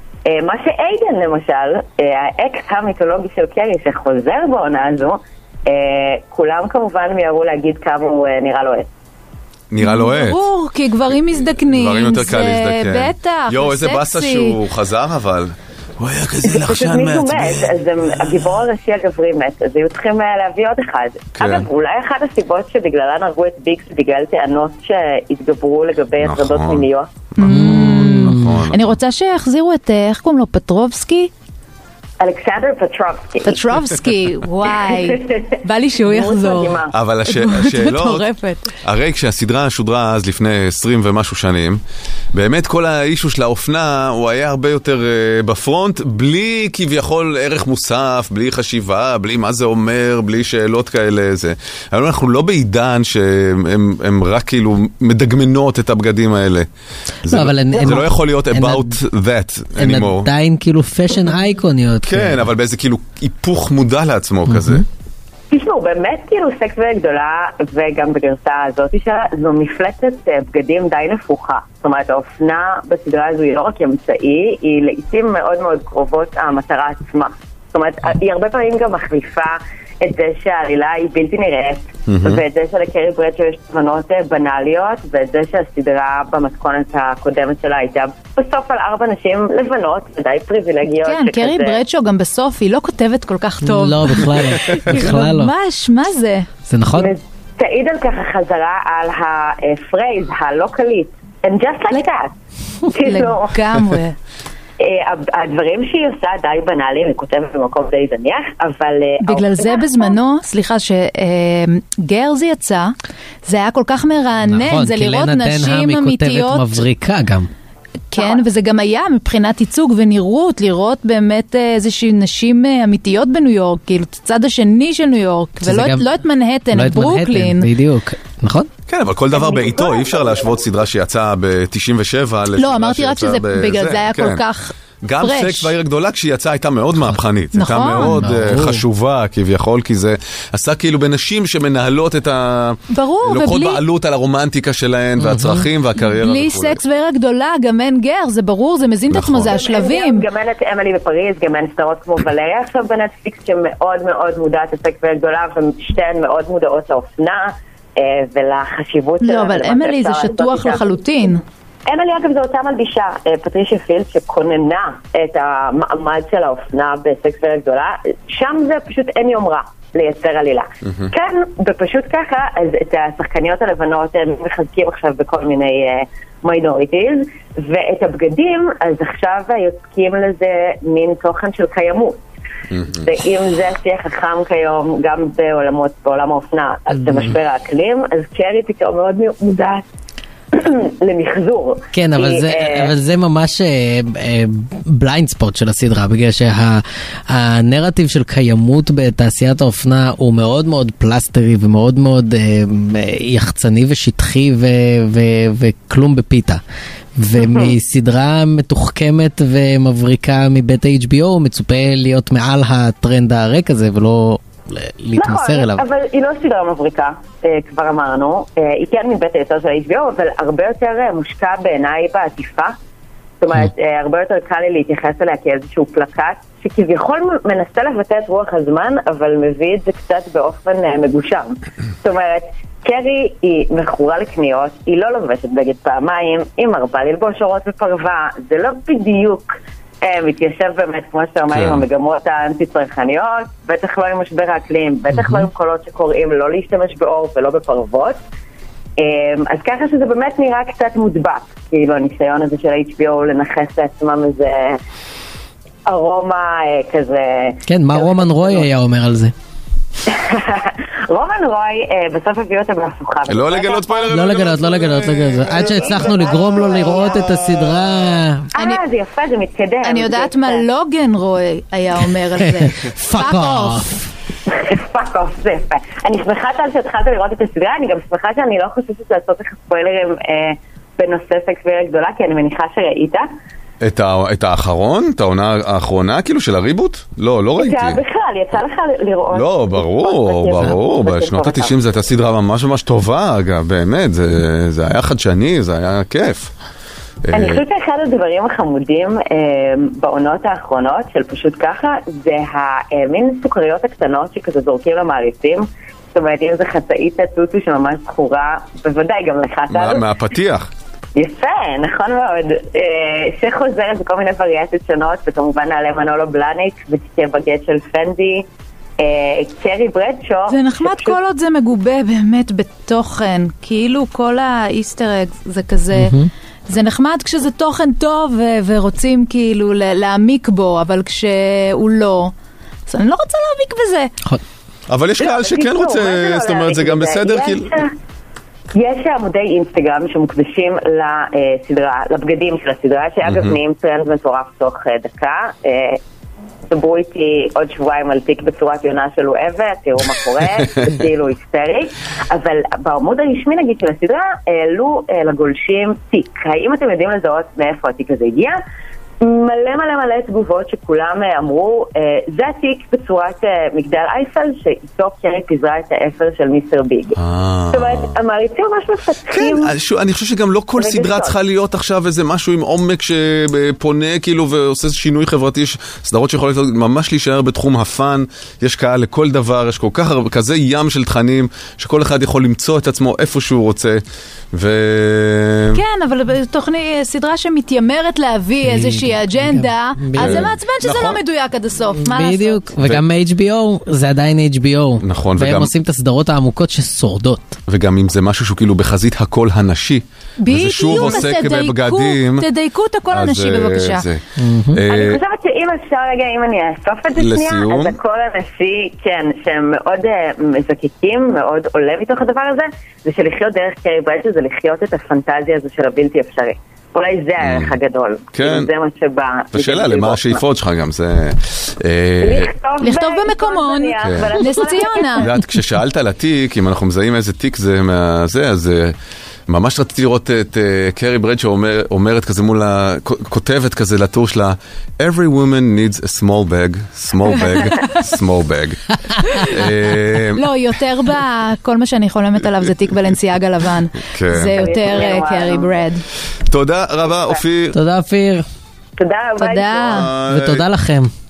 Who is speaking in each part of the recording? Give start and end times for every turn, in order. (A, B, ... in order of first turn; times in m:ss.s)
0:00.2-0:08.9 A
0:09.7-0:10.4 B
0:09.8-0:14.6 C
0:11.6-0:18.4 B
0:16.4-0:27.1 A
0:21.4-0:21.6 B
0:26.2-0:26.8 B
0:27.4-0:31.3 C
0:27.4-0:28.6 D
0:27.4-0:29.0 B
0:32.2-0:33.6 A
0:33.4-0:38.7 C
0:34.7-0:36.9 A
0:36.9-0:38.3 B
0:38.8-0:41.8 B
0:42.3-0:56.7 B
0:57.2-1:00.3 B
0:57.3-0:59.0 D
0:59.8-1:02.4 D
1:02.0-1:04.8 B
1:04.5-1:04.8 D
1:05.5-1:31.8 A
1:22.1-1:22.4 B
1:31.0-1:36.5 C
1:33.6-1:35.5 D
1:36.7-1:37.1 D
1:37.0-1:42.3 A
1:42.9-1:43.5 A
1:43.0-1:44.1 C
1:44.8-1:50.2 A
1:49.2-1:52.9 C
1:53.4-1:56.8 C
1:54.4-1:57.5 D
1:58.1-2:07.7 C
1:58.1-1:58.4 A
2:05.6-2:06.1 D
2:06.7-2:08.7 D
2:08.9-2:14.4 B
2:09.3-2:10.5 A
2:12.6-2:15.7 C
2:15.0-2:26.8 B
2:17.5-2:18.2 C
2:17.9-2:18.8 D
2:22.9-2:23.8 C
2:25.2-2:25.6 D
2:26.0-2:30.3 C
2:29.1-2:29.6 B
2:29.5-2:41.0 A
2:39.2-2:41.4 C
2:41.8-3:02.2 A
3:02.7-3:03.0 B
3:02.9-3:09.8 A
3:10.5-3:12.9 A
3:11.9-3:26.6 D
3:27.2-3:35.8 D
3:27.4-3:27.7 A
3:35.2-3:42.7 A
3:43.4-4:08.2 A
4:01.5-4:01.8 B
4:05.1-4:05.5 D
4:09.0-4:14.8 A
4:15.9-4:18.7 A
4:17.6-4:19.3 D
4:20.1-4:27.7 A
4:23.3-4:26.2 B
4:24.1-4:28.5 D
4:27.7-4:28.0 B
4:28.5-4:30.6 A
4:29.8-4:33.8 C
4:32.4-4:34.1 D
4:34.5-4:43.2 A
4:43.8-4:48.0 B
4:47.6-4:51.8 A
4:49.3-4:56.5 B
4:57.2-4:57.6 B
4:57.3-5:10.0 A
5:09.7-5:10.7 B
5:11.1-5:18.4 A
5:19.0-5:21.2 A
5:20.5-5:26.1 C
5:25.9-5:26.3 D
5:26.7-5:32.3 C
5:32.9-5:34.1 C
5:34.9-5:37.7 B
5:35.2-5:37.9 A
5:38.7-5:46.0 A
5:43.2-5:43.5 B
5:46.7-5:58.6 A
5:59.2-6:07.2 A
6:07.2-6:08.1 B
6:07.7-6:09.7 A
6:09.3-6:25.8 B
6:10.8-6:11.3 A
6:25.7-6:32.7 C
6:28.6-6:30.5 D
6:30.1-6:31.2 B
6:32.0-6:37.6 D
6:35.0-6:35.7 B
6:37.7-6:42.5 B
6:40.4-6:44.0 C
6:43.1-6:45.2 B
6:44.4-6:44.8 D
6:44.9-7:00.4 A
6:47.2-6:48.0 B
6:57.4-6:57.7 B
6:58.3-6:58.7 B
6:59.5-7:02.5 B
7:02.2-7:05.3 A
7:02.8-7:05.3 C
7:05.2-7:09.0 B
7:09.5-7:18.8 B
7:17.3-7:17.9 C
7:19.3-7:19.6 C
7:19.4-7:20.4 B
7:20.3-7:26.0 C
7:24.1-7:24.7 B
7:24.5-7:25.8 A
7:26.5-7:27.8 B
7:27.7-7:28.4 D
7:29.0-7:30.1 A
7:29.4-7:30.1 C
7:29.8-7:30.6 B
7:30.2-7:31.1 D